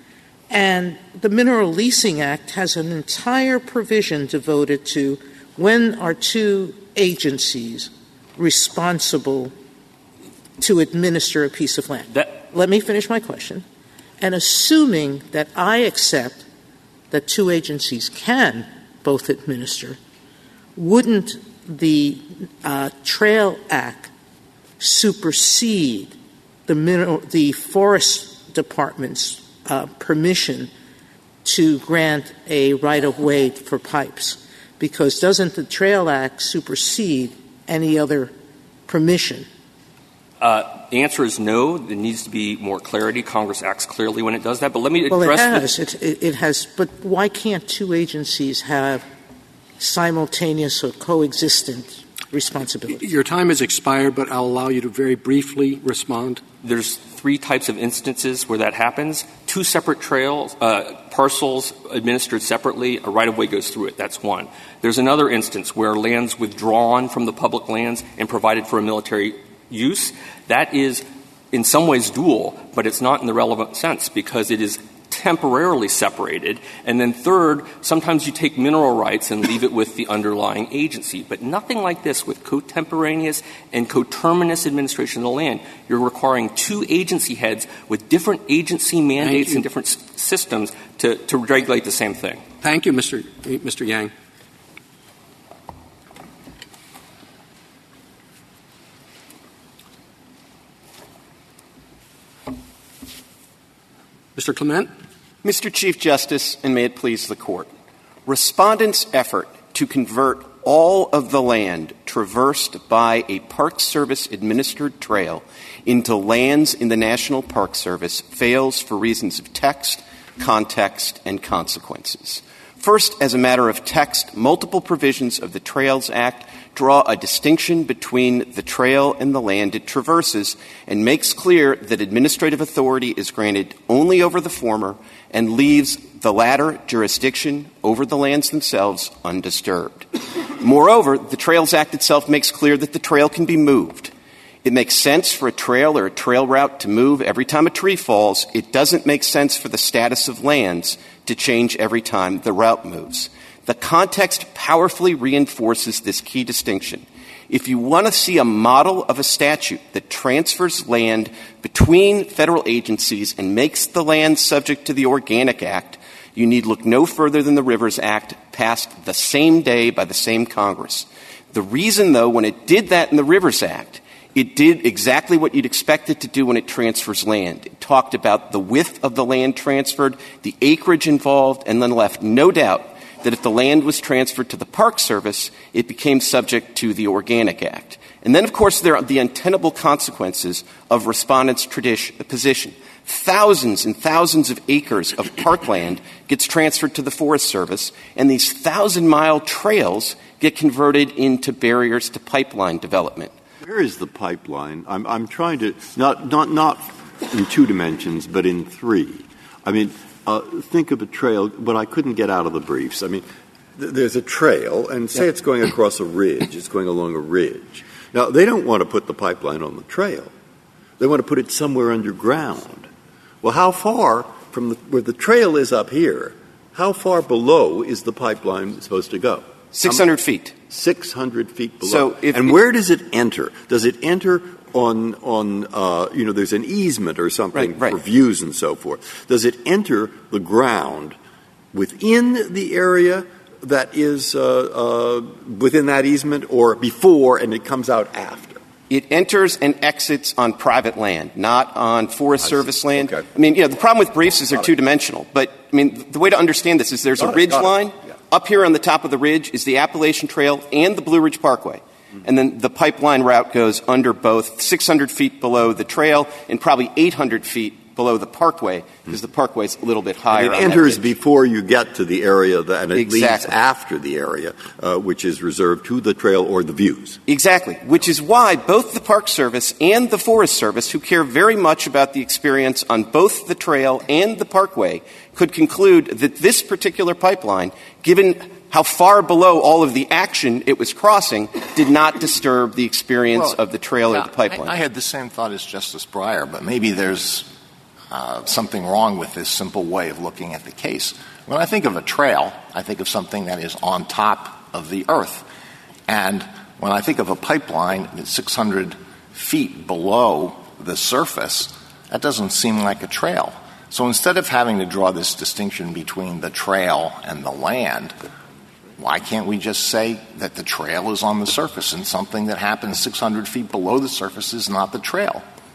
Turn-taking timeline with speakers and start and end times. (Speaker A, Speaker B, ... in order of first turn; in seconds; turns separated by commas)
Speaker A: 0.5-9.5, Speaker A: 10.6-13.6, Speaker A: 14.2-16.4, Speaker A: 17.1-20.0, Speaker A: 20.8-24.1, Speaker A: 24.8-26.1, Speaker A: 26.7-30.7, Speaker A: 31.4-38.3, Speaker A: 38.9-39.5, Speaker B: 40.4-45.7, Speaker A: 45.1-49.0, Speaker A: 49.8-53.0, Speaker C: 53.0-56.4, Speaker B: 56.6-92.4, Speaker C: 89.2-89.6, Speaker C: 92.6-94.1, Speaker C: 104.3-104.9, Speaker D: 105.4-107.7, Speaker D: 108.2-140.1, Speaker D: 140.6-144.1, Speaker D: 144.6-203.3, Speaker E: 203.6-213.2, Speaker E: 213.8-220.3, Speaker E: 221.0-222.9, Speaker E: 223.4-230.0, Speaker D: 229.7-230.6, Speaker E: 230.7-241.2, Speaker D: 231.8-232.6, Speaker D: 237.5-238.0, Speaker E: 241.7-248.6, Speaker D: 248.9-271.1, Speaker E: 252.5-253.2, Speaker E: 270.3-277.2, Speaker D: 272.9-273.6, Speaker D: 277.3-294.7, Speaker F: 294.2-297.5, Speaker F: 298.1-305.4, Speaker F: 306.1-318.1, Speaker F: 319.0-325.4